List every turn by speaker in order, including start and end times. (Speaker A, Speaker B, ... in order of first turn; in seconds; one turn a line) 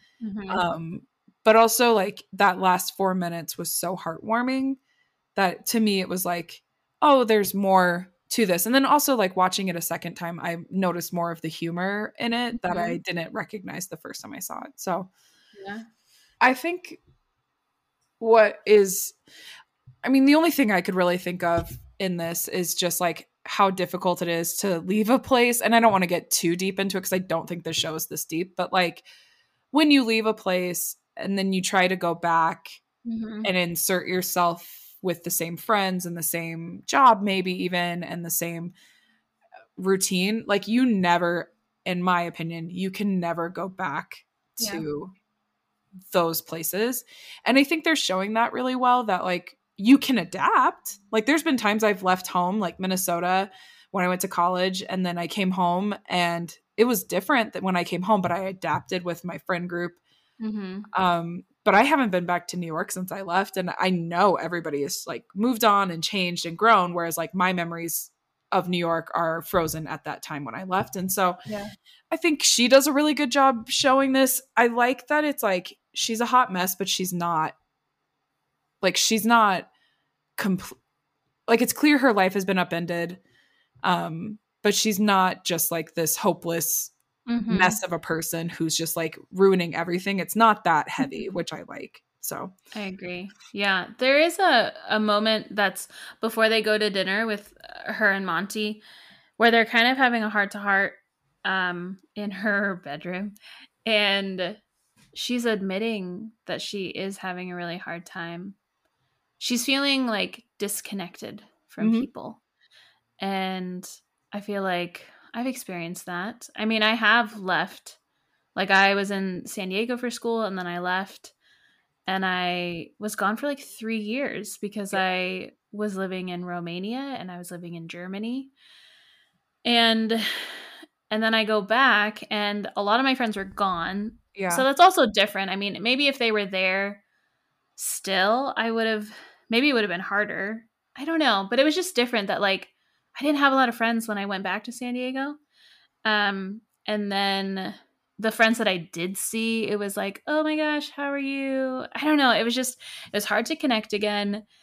Speaker A: 0.2-0.6
Speaker B: 0.5-4.8
Speaker B: 5.3-15.1
Speaker A: 12.7-13.0
Speaker A: 15.6-15.9
Speaker B: 16.4-17.0
Speaker B: 18.2-19.2
Speaker B: 20.0-29.0
Speaker B: 29.7-32.8
Speaker A: 33.0-33.5
Speaker B: 33.4-38.7
Speaker B: 39.8-45.1
Speaker A: 44.6-44.9
Speaker B: 46.1-60.0
Speaker A: 60.4-60.9
Speaker B: 60.9-71.4
Speaker A: 71.5-71.7
Speaker B: 72.1-77.6
Speaker B: 78.8-79.7
Speaker B: 80.4-80.8
Speaker B: 81.5-83.2
Speaker B: 83.8-86.9
Speaker A: 87.3-87.8
Speaker B: 87.5-92.5
Speaker A: 91.0-91.3
Speaker A: 92.7-98.8
Speaker A: 99.4-103.3
Speaker A: 103.8-104.6
Speaker A: 105.1-108.6
Speaker A: 109.4-112.4
Speaker B: 111.8-112.1
Speaker A: 113.2-118.0
Speaker A: 118.5-121.3
Speaker A: 122.1-128.5
Speaker A: 129.7-137.0
Speaker B: 134.4-134.7
Speaker A: 137.8-145.4
Speaker A: 146.1-154.4